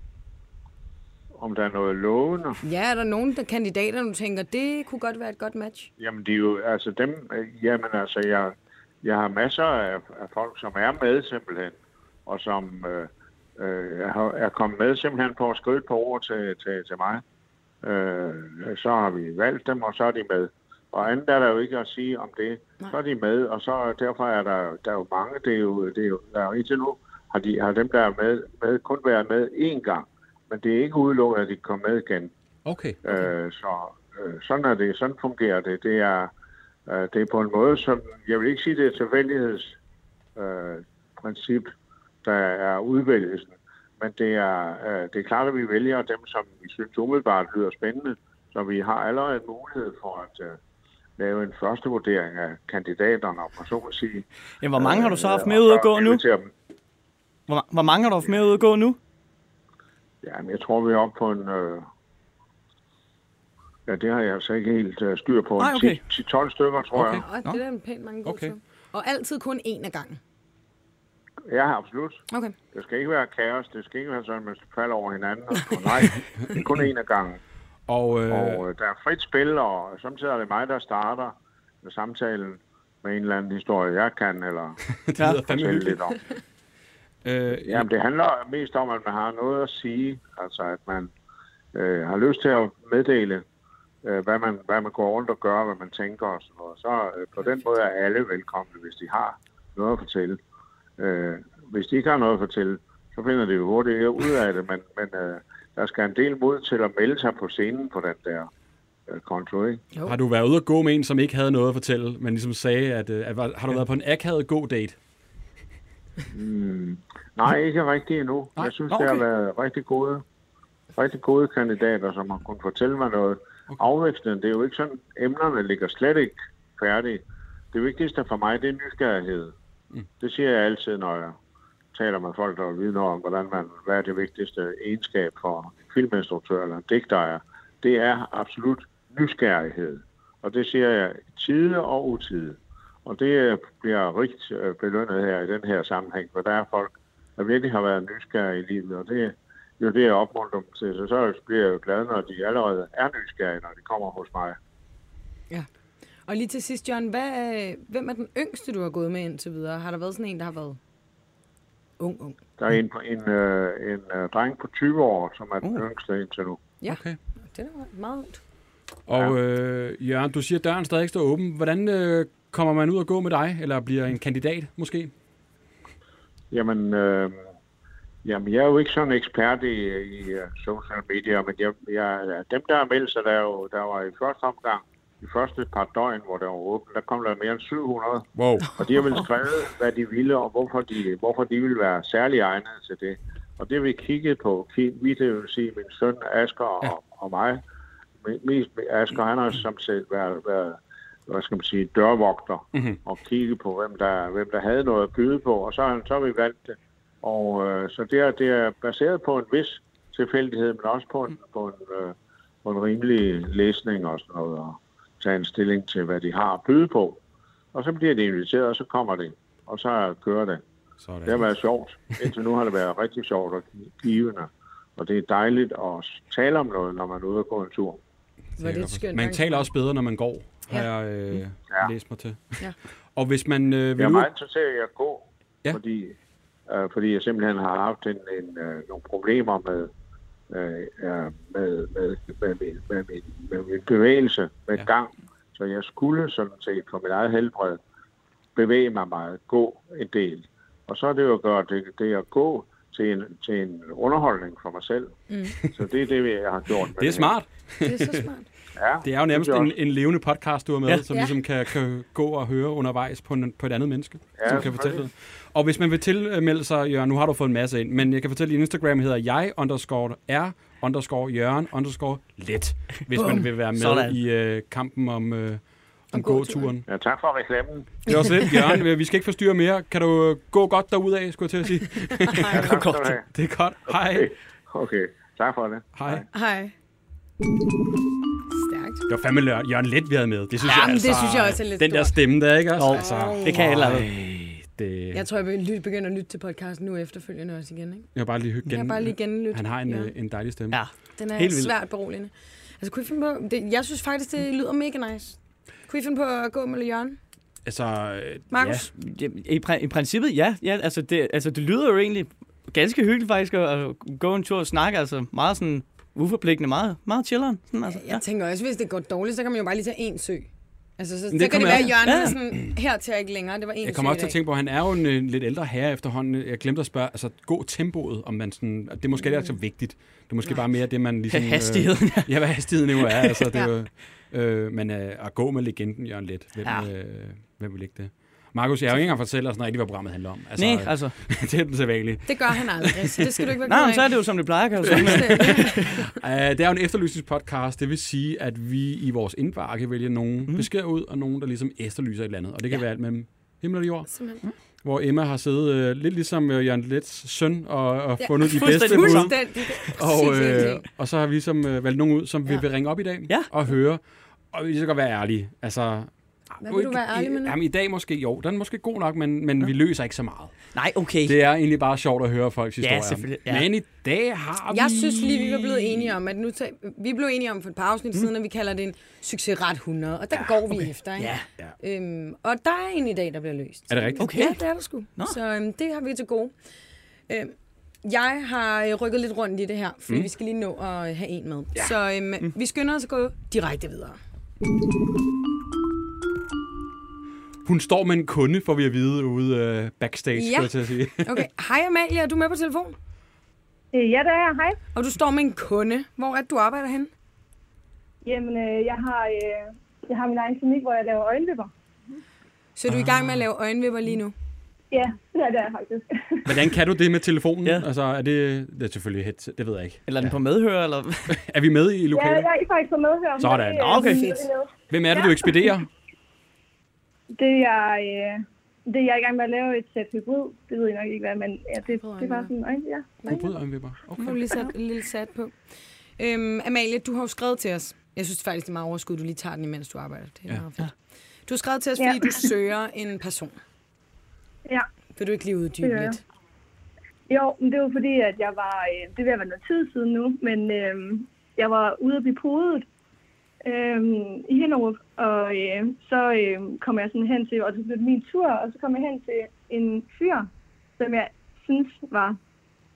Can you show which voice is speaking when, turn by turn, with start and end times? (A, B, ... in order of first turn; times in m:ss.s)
0:01.4-0:02.6 A
0:02.6-0:05.9 B
0:06.0-0:17.2 A
0:17.8-0:32.3 A
0:32.6-0:33.0 C
0:33.0-0:36.3 A
0:36.9-0:39.8 A
0:40.4-0:41.7 A
0:42.2-0:50.6 A
0:51.2-0:54.2 A
0:54.6-0:56.2 D
0:54.8-0:56.5 A
0:57.5-0:59.0 D
1:00.2-1:01.9 A
1:03.9-1:07.2 A
1:05.6-1:06.0 D
1:07.0-1:07.2 C
1:07.2-1:10.2 B
1:08.2-1:08.5 C
1:11.5-1:17.4 A
1:12.3-1:12.5 B
1:17.9-1:18.6 C
1:18.3-1:24.8 A
1:25.0-1:26.0 C
1:25.5-1:26.2 A
1:27.2-1:27.9 C
1:27.7-1:31.1 A
1:31.7-1:33.4 A
1:34.0-1:40.4 A
1:41.0-1:48.5 A
1:49.1-1:49.8 A
1:50.0-1:55.0 C
1:56.3-2:00.2 A
1:58.9-1:59.2 D
2:00.9-2:07.2 A
2:07.7-2:09.5 A
2:10.2-2:11.4 A
2:11.9-2:34.6 A
2:36.2-2:40.8 B
2:42.0-2:42.4 B
2:42.6-2:46.6 A
2:46.8-2:48.4 B
2:46.9-2:47.2 C
2:49.1-2:55.1 C
2:56.5-2:57.5 A
2:58.2-3:17.6 A
3:08.3-3:08.8 C
3:18.2-3:20.8 A
3:21.3-3:37.2 A
3:22.7-3:23.0 C
3:37.7-3:40.6 A
3:41.0-3:41.4 C
3:41.2-3:48.0 A
3:48.6-3:49.6 B
3:48.6-3:54.3 C
3:50.7-3:51.4 B
3:54.0-3:56.2 A
3:56.7-3:59.9 A
4:00.5-4:07.8 A
4:08.6-4:15.2 A
4:15.3-4:15.6 B
4:15.7-4:17.3 A
4:17.0-4:18.2 C
4:17.8-4:18.5 B
4:18.8-4:19.7 A
4:19.0-4:36.8 C
4:21.1-4:21.4 B
4:24.4-4:25.0 A
4:33.1-4:33.4 B
4:33.8-4:34.2 D
4:36.1-4:36.7 B
4:36.9-4:38.0 A
4:38.0-4:42.7 C
4:42.3-4:42.6 B
4:42.5-4:43.3 A
4:42.6-4:43.2 D
4:43.3-4:44.3 C
4:43.9-4:46.2 A
4:46.0-4:46.2 C
4:46.3-4:46.7 B
4:48.5-4:49.0 B
4:49.1-4:55.2 C
4:50.6-4:52.2 B
4:52.8-4:54.1 D
4:52.9-4:53.6 B
4:55.1-4:58.1 B
4:58.1-5:00.8 C
4:58.7-5:00.1 B
5:00.7-5:01.7 D
5:01.2-5:07.2 B
5:07.6-5:08.9 C
5:08.5-5:08.9 B
5:08.9-5:18.2 D
5:17.9-5:24.4 B
5:21.3-5:22.4 C
5:22.0-5:22.3 D
5:23.8-5:43.4 C
5:31.3-5:32.3 D
5:33.0-5:33.4 D
5:36.6-5:36.9 D
5:40.6-5:41.1 D
5:42.3-5:44.1 B
5:43.7-5:45.8 D
5:44.8-5:54.1 C
5:44.9-5:46.0 B
5:54.1-5:54.4 B
5:54.8-6:10.5 C
5:58.2-6:00.9 B
5:58.4-5:59.5 D
6:06.6-6:07.6 B
6:10.7-6:11.4 D
6:11.2-6:16.1 C
6:12.8-6:13.7 D
6:14.7-6:26.5 B
6:21.2-6:21.4 D
6:23.9-6:24.4 C
6:24.2-6:24.6 D
6:27.3-6:34.2 B
6:37.6-6:41.4 C
6:40.3-6:43.0 B
6:43.9-6:44.8 E
6:44.9-6:47.1 B
6:48.2-6:51.7 E
6:52.8-6:54.3 B
6:52.9-6:53.4 C
6:54.9-6:56.7 E
6:56.4-7:00.3 C
7:00.1-7:01.3 D
7:01.3-7:02.5 C
7:02.1-7:05.7 E
7:03.4-7:04.0 C
7:03.8-7:04.2 D
7:04.0-7:04.5 B
7:04.9-7:05.9 C
7:07.3-7:13.3 E
7:12.0-7:12.5 B
7:13.2-7:14.5 C
7:14.2-7:15.6 B
7:16.2-7:20.9 B
7:21.5-7:23.6 B
7:22.0-7:22.4 E
7:25.2-7:26.2 B
7:25.8-7:26.2 E
7:27.3-7:32.8 E
7:33.6-7:42.4 E